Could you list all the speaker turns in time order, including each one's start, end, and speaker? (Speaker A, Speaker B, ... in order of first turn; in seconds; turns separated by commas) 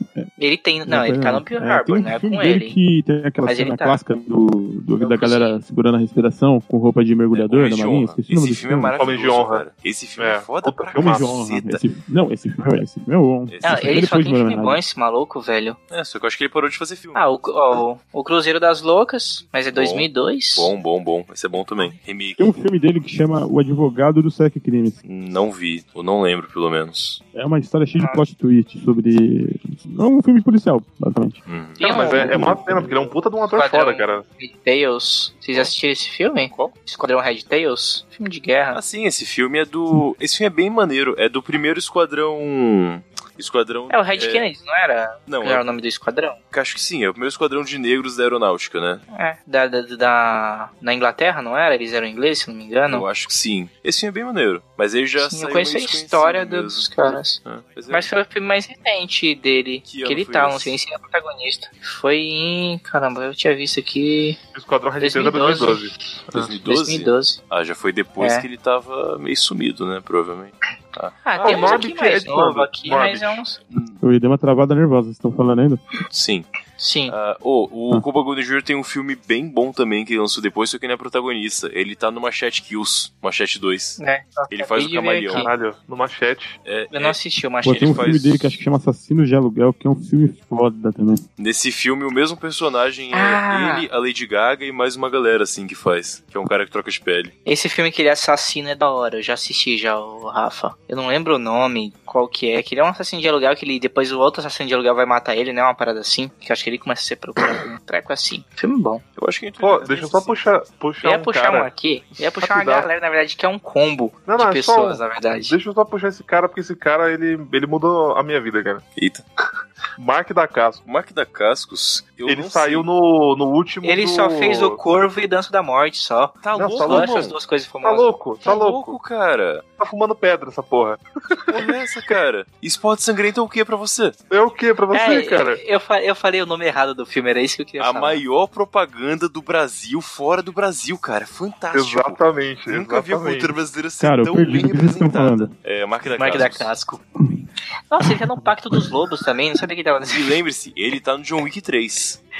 Speaker A: 0.4-2.7, Speaker B: 0.8-8.9, Speaker A: 3.4-4.0, Speaker A: 5.0-5.6, Speaker C: 7.3-11.8, Speaker D: 9.0-9.6, Speaker D: 10.2-11.3, Speaker B: 10.9-14.8, Speaker C: 13.5-14.0, Speaker A: 13.6-15.8, Speaker C: 15.9-17.2, Speaker A: 17.1-20.7, Speaker C: 19.7-22.5, Speaker B: 22.4-24.9, Speaker C: 25.0-27.2, Speaker B: 27.3-31.4, Speaker A: 28.0-28.2, Speaker C: 31.5-32.5, Speaker A: 31.8-32.4, Speaker D: 31.8-34.2, Speaker B: 32.1-32.9, Speaker A: 33.5-38.8, Speaker C: 38.7-44.5, Speaker A: 43.9-46.4, Speaker C: 45.3-45.6, Speaker C: 46.5-49.0, Speaker A: 49.1-53.0, Speaker C: 52.9-58.1, Speaker A: 55.2-57.4, Speaker A: 57.9-64.4, Speaker C: 59.8-60.8, Speaker D: 64.5-66.5, Speaker A: 65.0-65.8, Speaker C: 66.3-71.8, Speaker A: 66.7-67.4, Speaker A: 68.2-68.5, Speaker A: 71.2-73.6, Speaker D: 71.4-73.4, Speaker C: 73.7-74.0, Speaker B: 74.0-75.8, Speaker C: 76.1-76.5, Speaker A: 76.8-77.1, Speaker C: 77.1-84.0, Speaker A: 84.0-85.5, Speaker C: 84.5-85.5, Speaker D: 85.3-86.6, Speaker C: 86.6-87.2, Speaker A: 86.9-88.0, Speaker B: 87.6-91.2, Speaker C: 87.7-88.6, Speaker C: 91.4-97.3, Speaker A: 93.1-93.8, Speaker A: 97.5-109.0, Speaker C: 109.2-110.6, Speaker D: 109.6-111.7, Speaker A: 111.0-115.5, Speaker D: 112.4-112.9, Speaker D: 114.3-118.8, Speaker C: 119.0-119.2, Speaker D: 120.0-120.8, Speaker C: 120.8-122.9, Speaker D: 122.3-124.8, Speaker A: 123.8-128.1, Speaker C: 126.4-127.3, Speaker D: 126.5-127.2, Speaker D: 127.8-129.0, Speaker C: 128.4-129.6, Speaker D: 129.8-131.7, Speaker C: 131.5-134.2, Speaker D: 134.3-135.6, Speaker A: 134.9-138.2, Speaker C: 137.8-146.7, Speaker D: 141.7-143.5, Speaker B: 144.0-145.5, Speaker A: 146.2-147.0, Speaker A: 147.9-150.3, Speaker C: 150.1-152.2